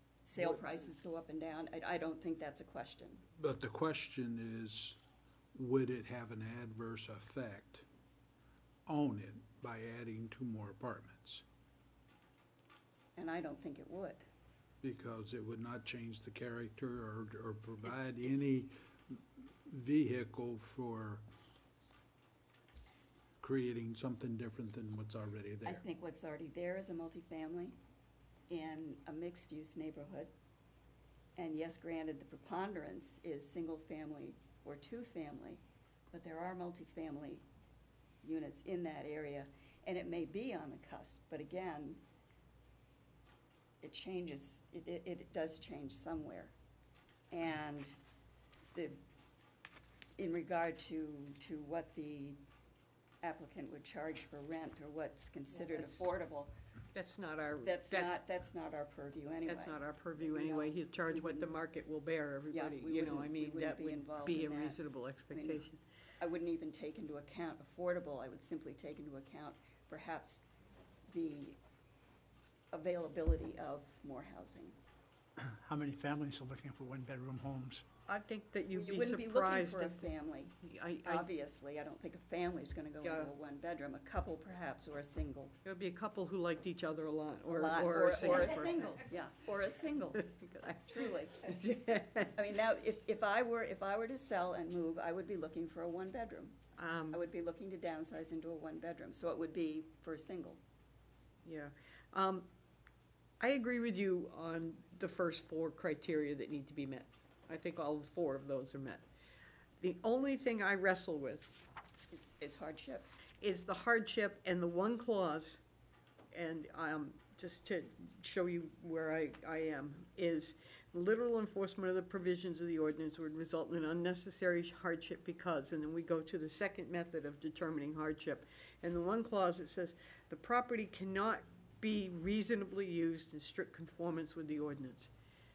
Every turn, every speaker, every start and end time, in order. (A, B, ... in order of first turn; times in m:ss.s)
0:00.2-0:03.2 A
0:03.4-0:05.0 B
0:05.5-0:07.8 B
0:08.9-0:11.4 B
0:13.2-0:14.2 A
0:14.8-0:21.2 B
0:17.8-0:18.6 A
0:23.4-0:25.8 B
0:25.6-0:27.8 A
0:28.5-0:30.3 A
0:31.4-0:37.4 A
0:38.2-0:42.0 A
0:43.8-0:46.5 A
0:47.3-0:48.0 A
0:48.7-0:49.0 A
0:50.2-0:52.4 A
0:53.2-0:56.5 A
0:55.5-0:56.1 C
0:56.9-0:58.2 C
0:57.6-1:01.5 A
0:59.4-1:05.8 C
1:02.5-1:04.8 A
1:05.3-1:05.6 A
1:06.2-1:10.5 A
1:11.1-1:11.6 A
1:12.7-1:14.8 A
1:15.4-1:17.8 D
1:18.1-1:20.1 C
1:18.7-1:25.5 A
1:20.6-1:21.3 C
1:23.0-1:23.3 C
1:25.6-1:29.1 C
1:27.5-1:30.3 A
1:30.3-1:32.3 C
1:30.9-1:31.5 A
1:32.3-1:36.6 A
1:36.8-1:37.2 C
1:37.1-1:40.6 A
1:41.4-1:42.5 C
1:43.4-1:49.0 C
1:49.8-1:51.5 C
1:52.1-1:53.1 A
1:53.4-1:55.6 C
1:56.3-2:15.1 C